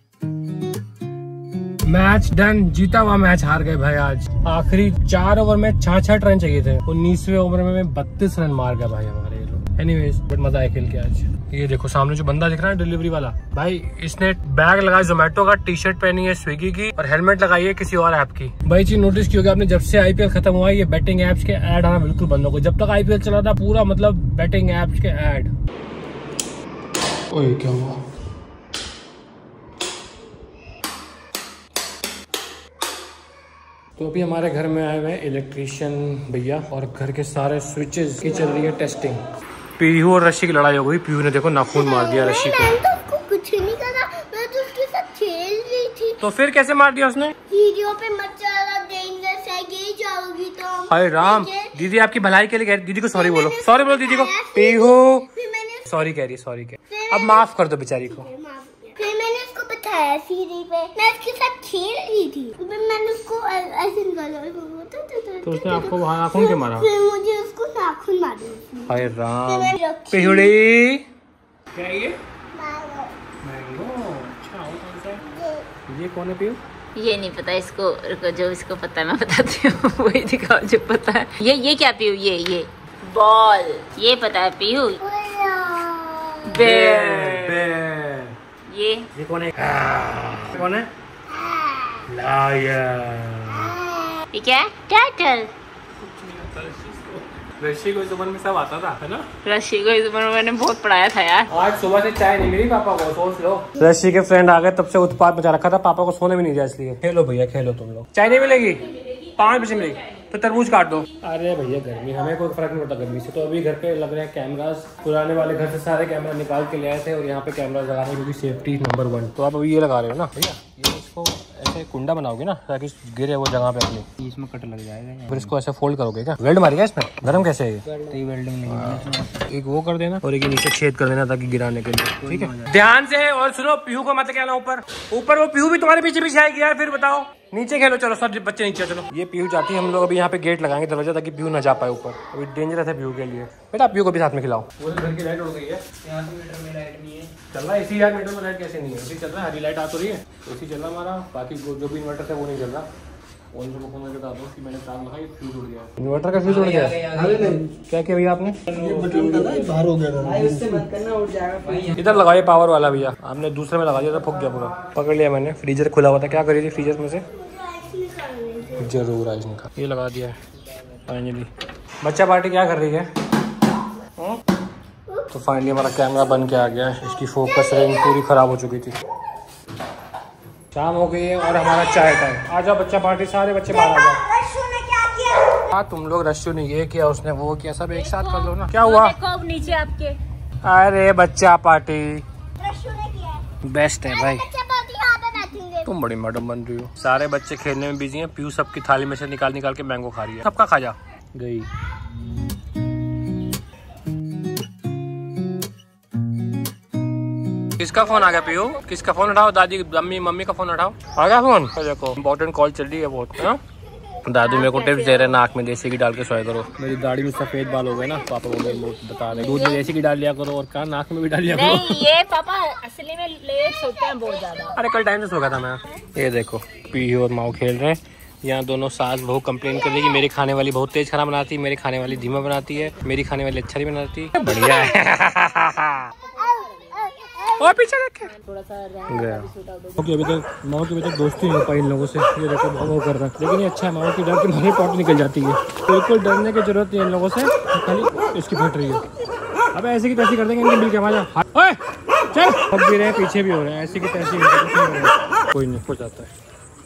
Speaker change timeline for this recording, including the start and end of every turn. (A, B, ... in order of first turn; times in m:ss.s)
0:01.8-0:25.5 A
0:27.3-0:28.0 A
0:34.0-0:39.2 A
0:39.8-0:42.8 A
0:41.7-0:46.2 B
0:46.2-0:47.4 A
0:47.5-0:51.8 B
0:50.9-0:55.3 A
0:53.2-0:55.8 B
0:55.8-0:58.3 A
0:56.9-0:57.5 B
0:58.1-1:10.5 B
1:05.4-1:06.9 A
1:08.9-1:11.1 A
1:11.7-1:12.2 A
1:12.5-1:13.2 B
1:13.4-1:15.2 A
1:15.3-1:15.7 B
1:15.9-1:16.6 A
1:17.0-1:25.0 C
1:25.0-1:26.5 B
1:26.5-1:27.7 C
1:26.6-1:28.4 A
1:28.7-1:29.1 C
1:29.2-1:30.9 A
1:31.4-1:32.0 B
1:32.1-1:33.8 A
1:33.9-1:34.2 B
1:34.3-1:35.5 C
1:36.0-1:39.3 A
1:39.4-1:41.5 C
1:41.5-2:04.1 A
2:04.2-2:05.5 D
2:05.3-2:07.9 A
2:07.9-2:09.3 D
2:08.6-2:25.8 A
2:12.2-2:12.7 D
2:26.0-2:27.3 D
2:27.5-2:32.9 A
2:33.5-2:38.8 A
2:36.4-2:37.7 D
2:38.7-2:42.2 D
2:41.9-2:47.3 A
2:47.3-2:49.0 B
2:48.8-2:50.4 A
2:51.1-2:51.5 A
2:52.0-2:53.1 A
2:55.3-2:59.0 A
3:00.7-3:04.2 A
3:04.0-3:05.6 B
3:05.6-3:09.2 A
3:08.0-3:10.2 C
3:10.6-3:12.2 A
3:12.6-3:13.6 B
3:13.6-3:14.5 A
3:14.1-3:15.9 B
3:15.8-3:21.7 A
3:27.8-3:33.6 A
3:34.2-3:42.1 A
3:34.4-3:35.4 C
3:39.3-3:39.8 C
3:41.5-3:44.7 C
3:44.7-3:56.1 A
3:56.5-3:57.4 B
3:57.5-3:58.4 A
3:58.3-3:59.9 C
3:59.1-4:09.1 A
4:09.7-4:11.8 A
4:12.3-4:16.3 A